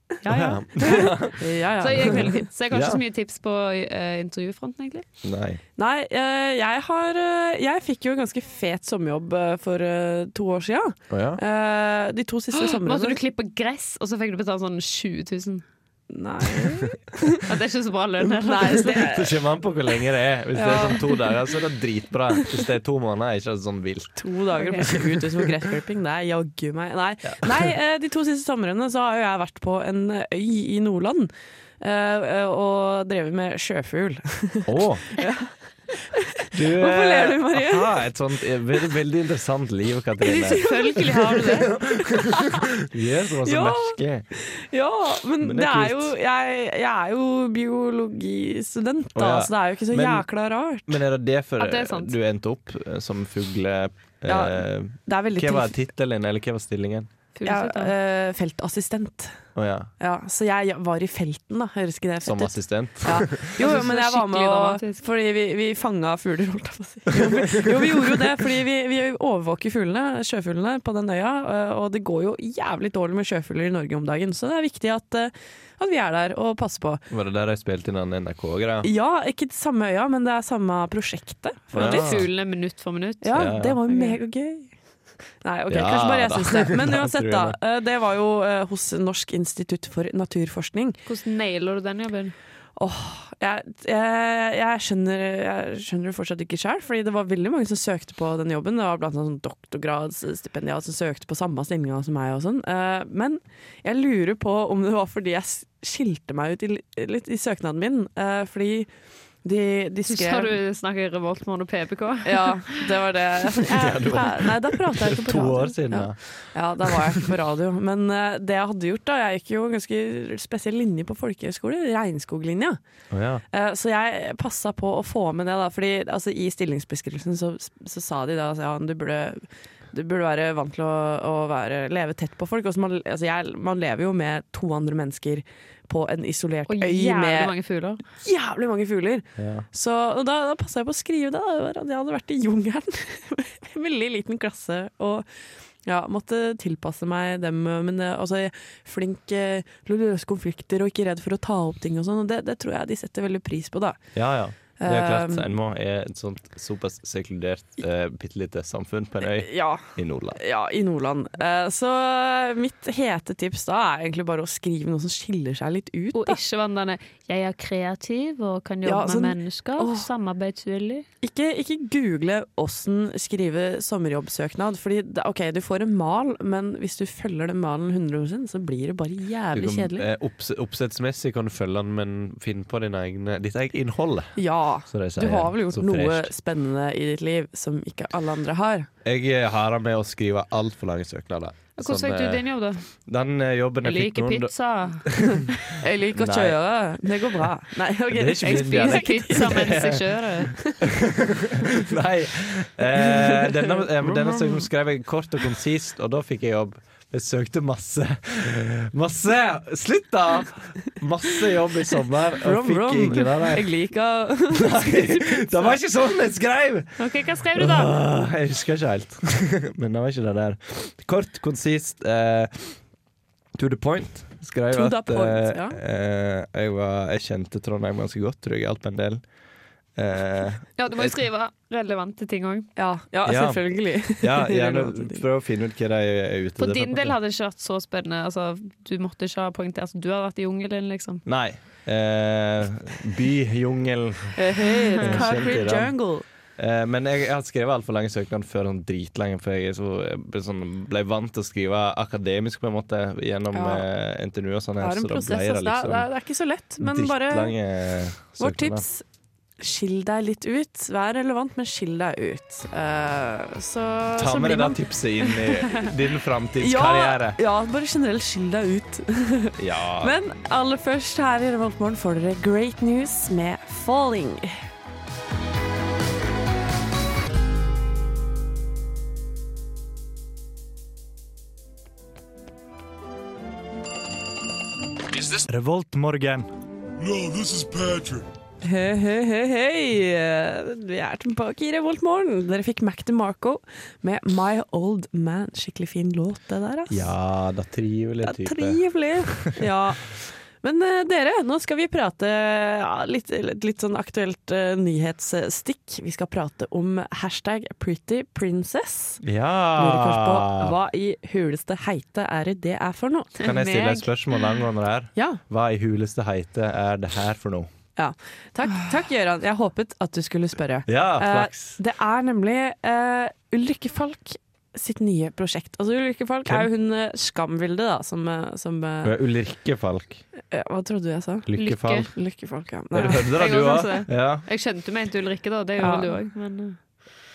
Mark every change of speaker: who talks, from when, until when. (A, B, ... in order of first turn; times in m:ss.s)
0:00.2-0:05.0 A
0:00.2-0:01.4 B
0:00.8-0:02.5 C
0:01.9-0:03.0 B
0:05.2-0:05.6 B
0:05.8-0:13.2 C
0:11.1-0:11.4 B
0:12.5-0:15.6 A
0:16.1-0:17.4 C
0:17.4-0:19.0 A
0:18.4-0:19.4 C
0:18.9-0:24.2 B
0:20.5-0:21.3 C
0:24.2-0:38.0 C
0:24.6-0:24.9 A
0:24.8-0:25.5 B
0:27.3-0:27.7 B
0:34.6-0:35.1 B
0:36.5-0:40.7 B
0:40.2-0:42.7 C
0:40.2-0:41.8 A
0:41.6-0:44.2 B
0:43.4-0:51.0 C
0:45.4-0:46.1 B
0:49.2-0:50.2 B
0:50.9-0:57.1 B
0:51.6-0:52.2 A
0:54.3-0:55.8 C
0:57.4-0:57.9 A
0:57.4-0:59.4 C
0:59.5-0:59.9 B
1:00.0-1:17.0 C
1:02.2-1:03.6 B
1:03.5-1:05.0 A
1:07.1-1:08.2 B
1:17.1-1:18.9 B
1:18.8-1:22.2 C
1:21.7-1:22.3 B
1:21.7-1:24.2 A
1:23.2-1:24.8 C
1:23.3-1:23.8 B
1:25.4-1:31.0 C
1:25.7-1:27.6 B
1:31.0-1:32.3 A
1:32.8-1:48.9 C
1:49.4-1:50.6 C
1:50.1-1:52.9 A
1:52.2-2:02.8 C
1:53.7-1:57.3 B
2:03.1-2:03.4 B
2:03.5-2:17.5 C
2:16.7-2:18.0 A
2:18.1-2:25.3 C
2:19.4-2:19.7 B
2:25.8-2:34.0 C
2:34.1-2:40.4 B
2:34.8-2:35.5 C
2:39.3-2:46.4 C
2:46.1-2:51.1 A
2:48.8-2:50.1 C
2:51.2-3:00.0 C
2:59.5-3:06.3 B
3:04.4-3:08.9 C
3:09.0-3:12.4 B
3:11.8-3:12.9 A
3:13.0-3:14.5 B
3:13.8-3:15.6 A
3:15.0-3:15.5 B
3:15.8-3:20.0 C
3:16.1-3:16.6 B
3:17.1-3:17.5 B
3:18.1-3:33.7 B
3:18.4-3:20.6 A
3:23.0-3:24.7 C
3:32.4-3:35.8 C
3:34.5-3:42.8 B
3:37.0-3:37.9 A
3:43.6-3:49.2 B
3:44.7-3:45.8 C
3:50.0-3:51.2 B
3:50.8-3:52.7 A
3:52.8-3:55.2 C
3:53.2-3:57.1 B
3:56.6-4:01.2 A
4:01.2-4:05.9 B
4:04.4-4:06.2 C
4:06.6-4:16.1 B
4:13.5-4:13.9 C
4:14.8-4:17.6 C
4:16.8-4:18.8 B
4:18.4-4:19.0 C
4:19.6-4:25.6 C
4:24.2-4:27.4 B
4:26.6-4:34.6 C
4:29.6-4:30.2 B
4:45.1-4:46.5 B
4:48.6-4:57.1 C
4:56.9-4:59.6 B
4:58.2-5:09.2 C
5:09.2-5:10.8 B
5:09.8-5:13.4 C
5:13.4-5:14.6 A
5:13.4-5:17.7 B
5:15.2-5:15.4 C
5:18.0-5:29.1 C
5:20.9-5:21.8 B
5:29.0-5:30.2 B
5:30.4-5:31.5 C
5:31.4-5:32.1 B
5:31.6-5:32.1 A
5:32.1-5:33.4 C
5:32.9-5:34.4 B
5:33.0-5:36.8 A
5:35.8-5:36.1 C